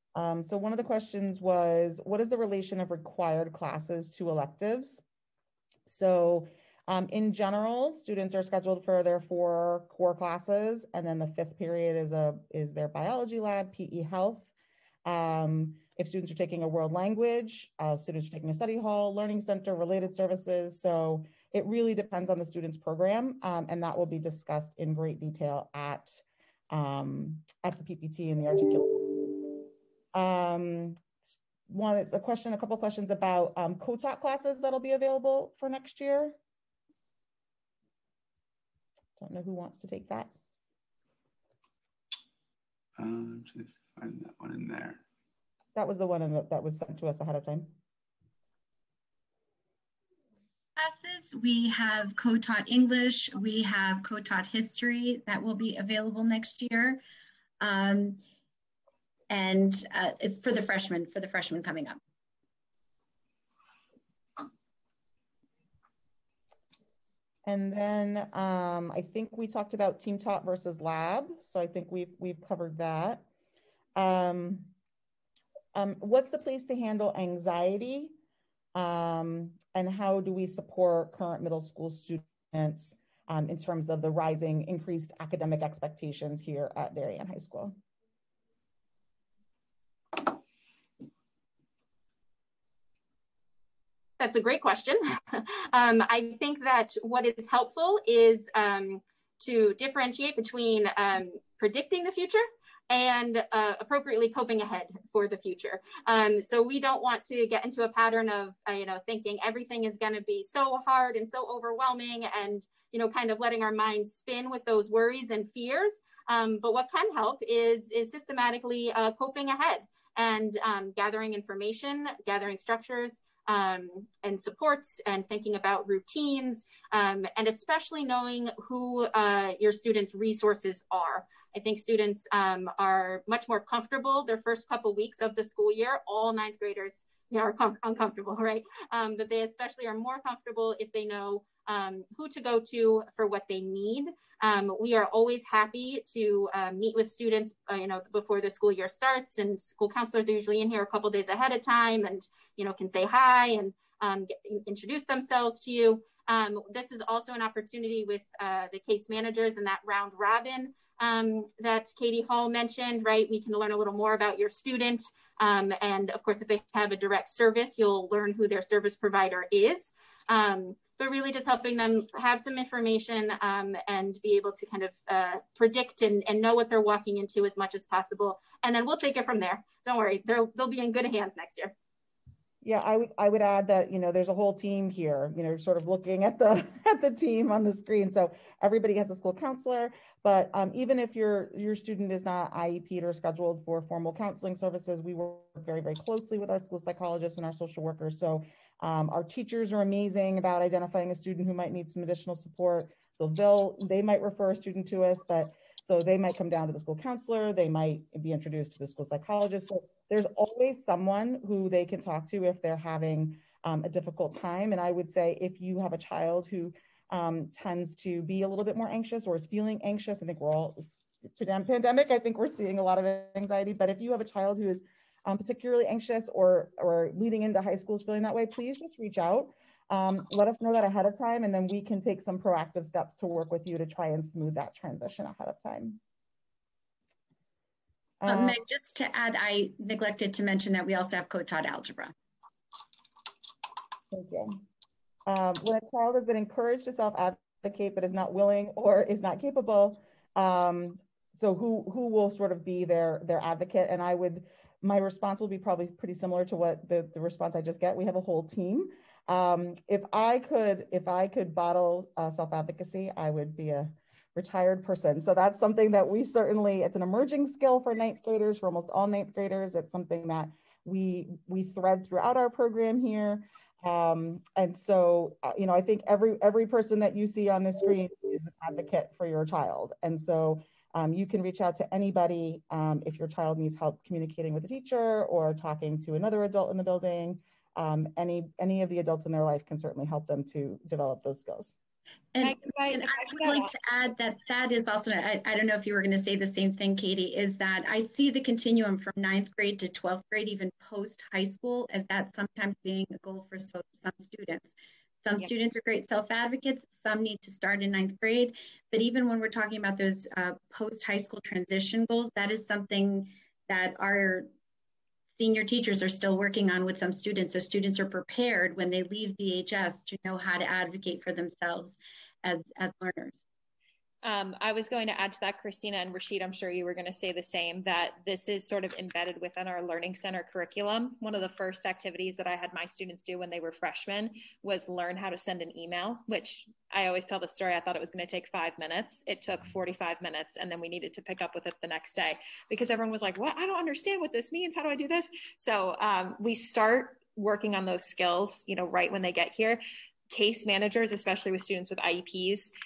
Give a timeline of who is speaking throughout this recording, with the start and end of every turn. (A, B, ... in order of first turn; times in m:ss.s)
0:00.1-0:05.0 A
0:05.8-0:14.5 A
0:15.0-0:29.6 A
0:30.1-0:36.4 A
0:39.2-0:40.3 A
0:43.0-0:45.0 B
0:45.7-0:47.7 A
0:50.8-0:57.0 C
0:57.6-0:58.2 C
0:59.3-1:02.0 C
1:07.4-1:13.2 A
1:14.0-1:14.7 A
1:15.7-1:18.1 A
1:18.7-1:27.7 A
1:34.2-3:01.7 D
3:02.6-3:56.0 A
3:58.2-3:58.6 A
3:58.2-4:02.1 C
4:04.1-4:04.6 A
4:05.2-4:51.7 A
4:52.3-5:14.5 C
4:52.4-4:53.7 E
5:15.3-5:23.4 C
5:24.2-5:52.7 E